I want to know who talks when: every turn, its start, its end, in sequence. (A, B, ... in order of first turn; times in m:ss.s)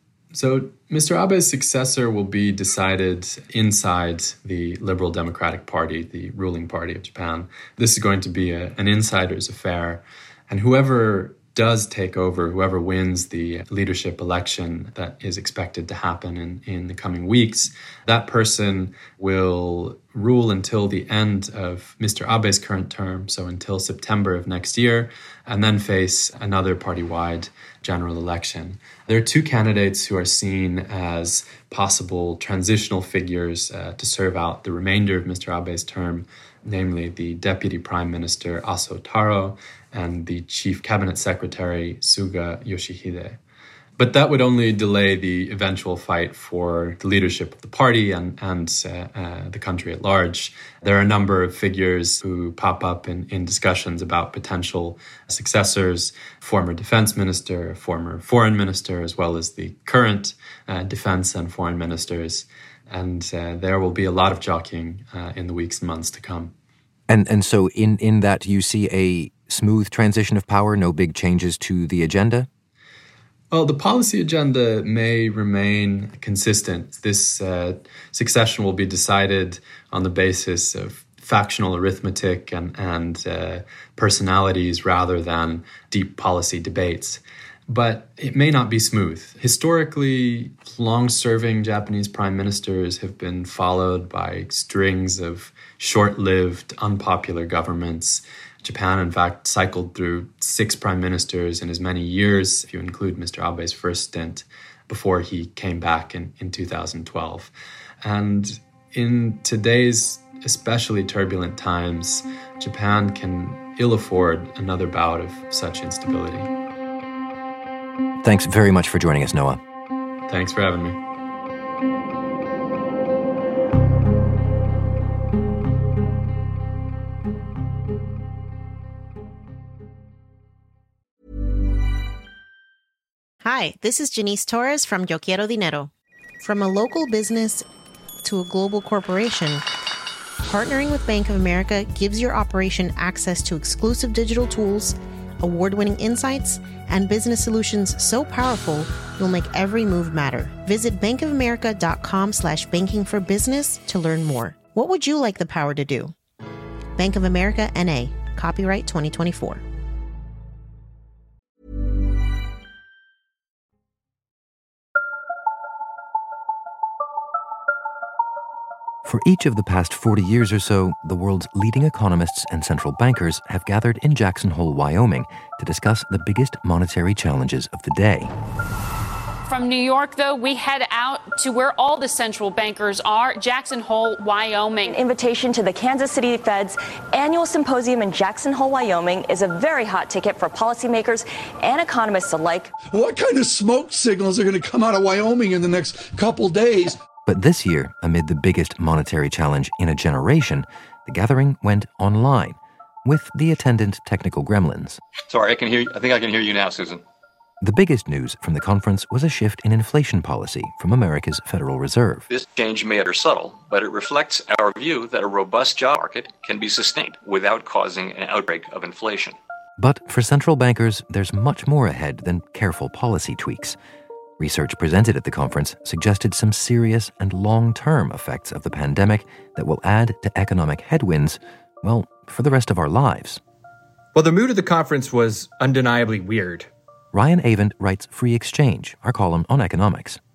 0:00.3-0:43.4 A
0:44.0-1:06.5 A
1:07.1-1:12.5 B
1:13.5-1:47.5 A
1:48.0-1:56.5 A
1:58.2-1:59.6 B
2:00.3-2:01.0 A
2:13.4-2:15.9 C
2:16.4-2:17.6 C
2:18.2-2:19.6 C
2:20.4-2:36.1 C
2:37.0-2:39.6 C
2:49.0-2:58.3 B
2:59.5-3:04.9 D
3:04.8-3:12.7 E
3:12.9-3:17.0 F
3:17.2-3:25.0 B
3:25.3-3:27.0 G
3:27.6-3:32.2 B
3:32.3-3:39.3 G
3:39.8-3:43.8 B
3:44.4-3:53.4 B
3:54.1-3:56.7 H
3:57.1-4:00.2 B